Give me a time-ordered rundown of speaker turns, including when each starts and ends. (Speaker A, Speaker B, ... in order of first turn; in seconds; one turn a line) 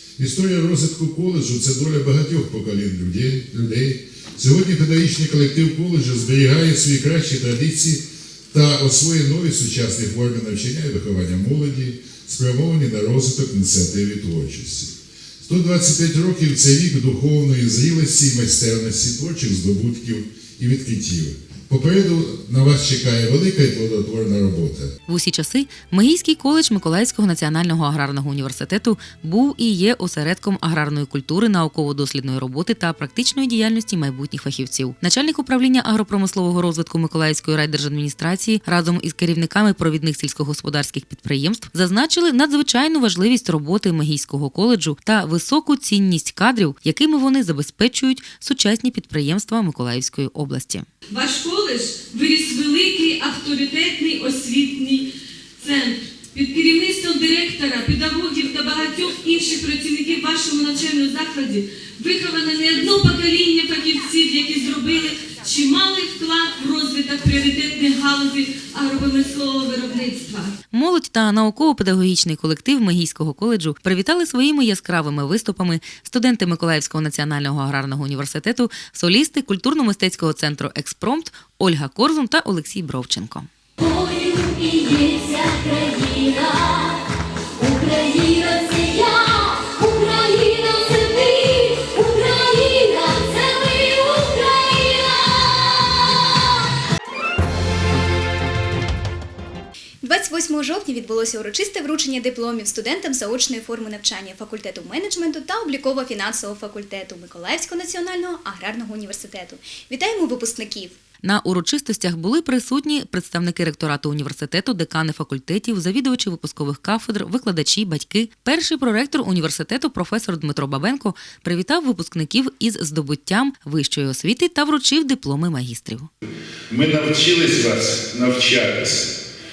Speaker A: 0.2-24.9
Speaker B: 25.1-50.9
Speaker C: 51.1-70.5
Speaker B: 70.7-83.5
Speaker D: 83.8-86.9
Speaker D: 87.6-95.6
Speaker E: 100.0-111.0
Speaker B: 111.2-126.1
Speaker A: 126.7-129.1